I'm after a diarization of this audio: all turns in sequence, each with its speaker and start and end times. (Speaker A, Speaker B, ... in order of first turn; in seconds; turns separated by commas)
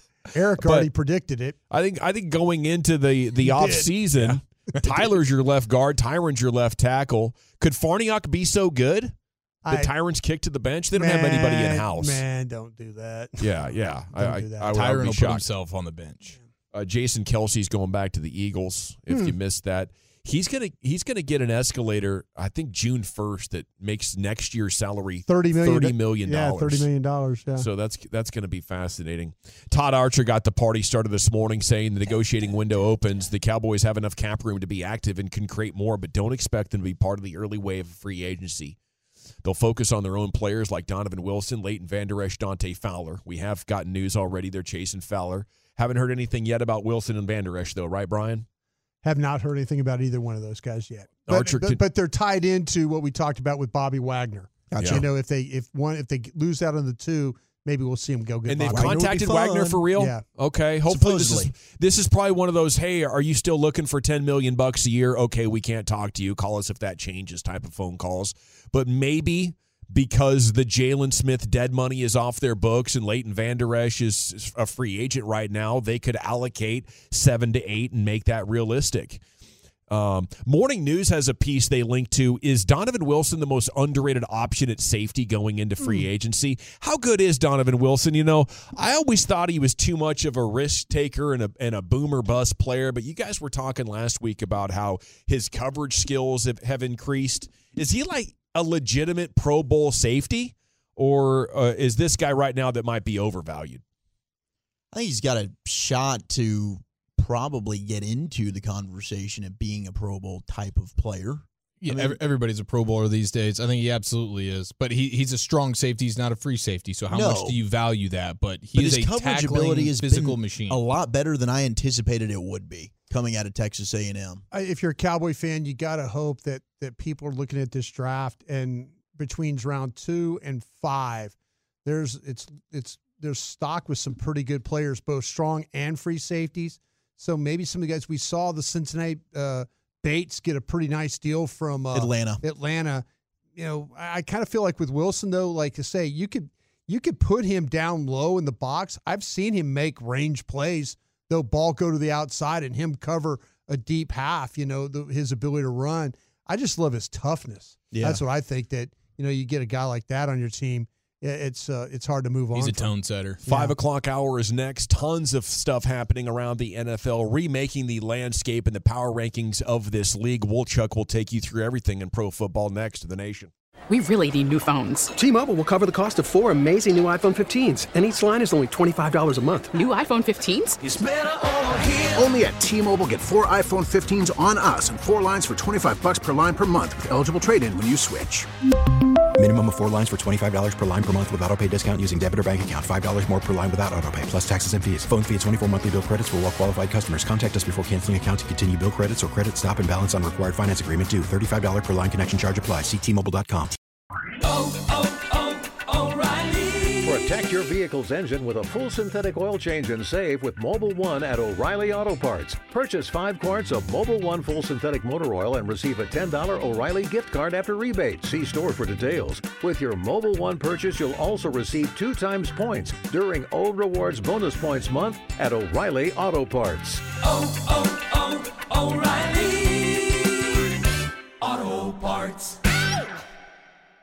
Speaker A: 0.3-1.6, Speaker B: 0.6-0.9, Speaker B: 1.7-9.1, Speaker A: 3.4-3.9, Speaker C: 4.2-5.0, Speaker A: 9.7-9.9, Speaker B: 9.7-12.2, Speaker A: 10.9-14.7, Speaker B: 13.4-15.5, Speaker C: 14.7-16.4, Speaker B: 16.7-26.9, Speaker A: 19.1-19.3, Speaker A: 25.3-27.7, Speaker B: 27.6-38.8, Speaker B: 39.4-48.5, Speaker A: 49.0-59.1, Speaker B: 51.3-51.8, Speaker D: 54.7-55.0, Speaker B: 54.8-55.1, Speaker B: 58.5-79.2, Speaker D: 58.7-59.9, Speaker A: 59.9-60.2, Speaker D: 60.9-61.5, Speaker B: 79.9-103.8, Speaker D: 104.9-112.2, Speaker C: 111.8-120.8, Speaker D: 117.1-117.6, Speaker D: 118.8-124.5, Speaker A: 124.5-143.1, Speaker D: 141.9-142.4, Speaker A: 143.6-163.7, Speaker D: 157.9-158.2, Speaker C: 162.5-163.4, Speaker B: 163.5-173.5, Speaker E: 173.9-175.1, Speaker F: 175.2-179.8, Speaker E: 179.7-180.8, Speaker F: 180.8-181.6, Speaker G: 182.1-188.5, Speaker H: 189.4-203.8, Speaker I: 207.0-227.0, Speaker J: 228.7-230.3, Speaker J: 231.4-232.6